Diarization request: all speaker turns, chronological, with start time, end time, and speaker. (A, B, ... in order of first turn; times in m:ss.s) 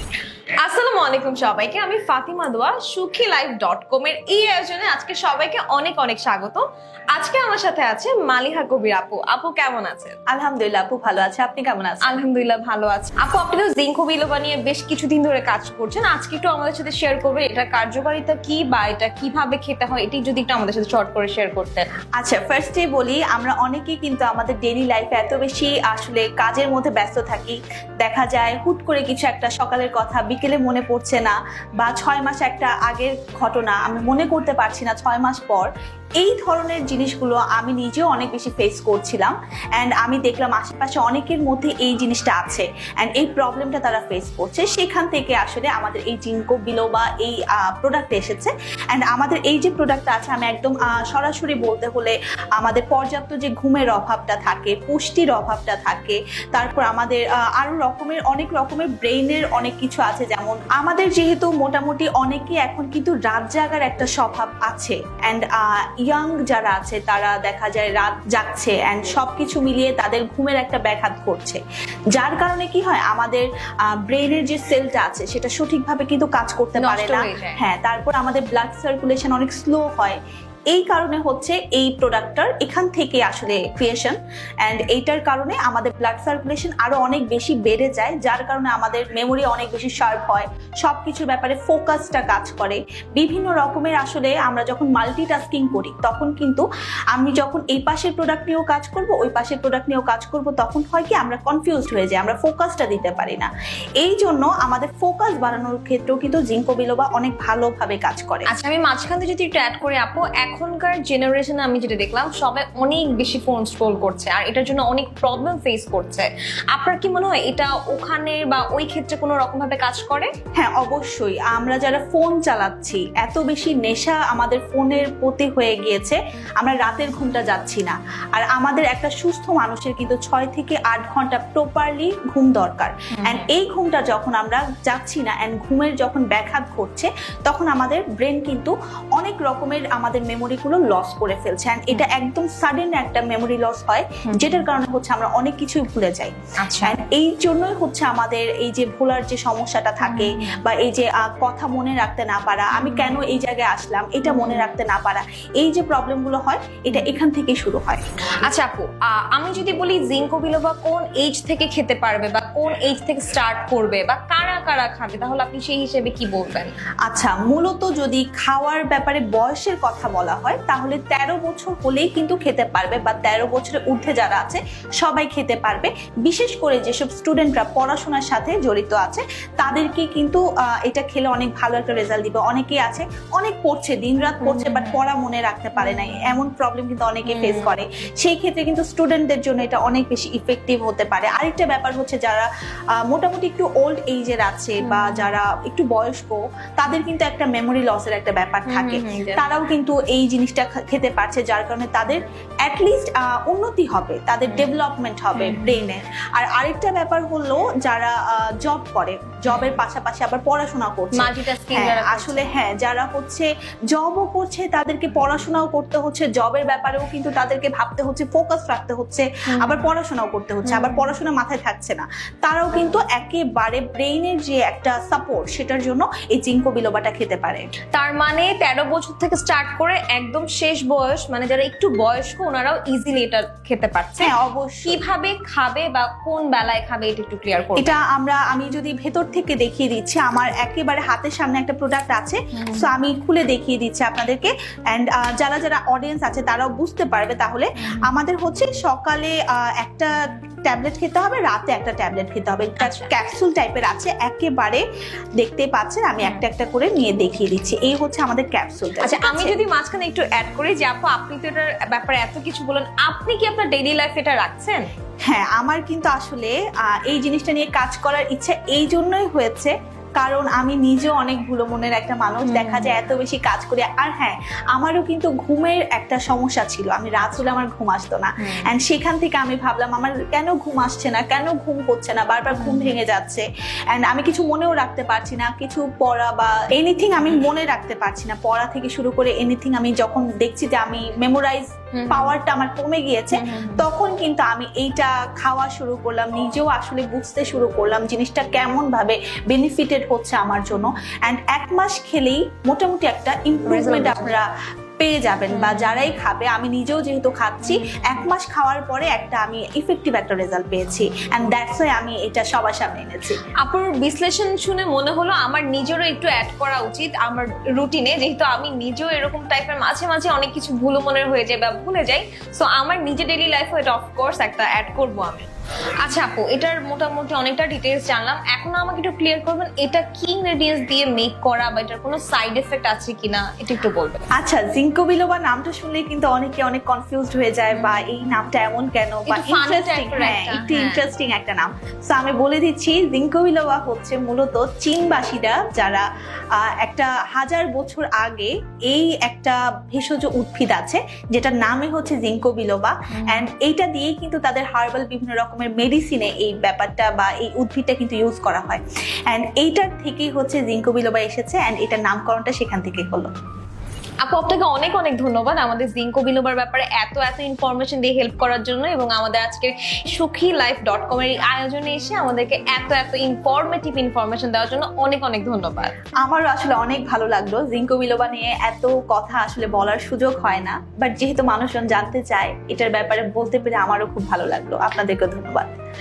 0:00.6-0:10.1 A
0:10.3-0:12.1 B
0:12.0-0:21.9 A
0:22.2-0:35.7 B
0:36.2-1:11.6 B
1:12.1-1:20.2 B
1:16.8-1:17.6 A
1:20.7-1:48.5 B
1:48.4-2:00.3 A
2:00.6-2:38.0 B
2:13.2-2:13.5 A
2:24.3-2:24.6 A
2:26.6-2:27.0 A
2:30.0-2:30.6 A
2:32.7-2:33.2 A
2:34.2-2:34.7 A
2:38.4-2:46.7 A
2:47.0-3:12.5 B
3:04.4-3:05.0 A
3:05.8-3:06.4 A
3:07.2-3:07.8 A
3:13.0-3:47.6 B
3:14.8-3:15.3 A
3:18.7-3:19.4 A
3:25.3-3:25.8 A
3:29.5-3:29.8 A
3:31.1-3:32.5 A
3:39.5-3:39.9 A
3:40.6-3:41.1 A
3:47.9-3:54.3 A
3:54.2-3:55.0 B
3:54.8-3:58.0 A
3:57.8-4:14.8 B
4:02.5-4:02.9 A
4:07.9-4:08.2 A
4:12.8-4:13.1 A
4:15.4-4:19.6 B
4:19.0-4:24.8 A
4:25.2-5:13.4 B
4:32.4-4:32.9 A
4:42.5-4:43.0 A
4:52.0-4:52.4 A
4:53.3-4:53.8 A
5:03.7-5:04.3 A
5:05.5-5:06.1 A
5:07.7-5:08.2 A
5:13.6-5:25.4 A
5:26.0-5:34.3 A
5:34.4-5:46.0 B
5:37.7-5:38.0 A
5:39.3-5:41.0 A
5:46.6-6:03.3 B
5:53.1-5:53.5 A
6:04.2-6:16.0 A
6:16.2-6:25.7 B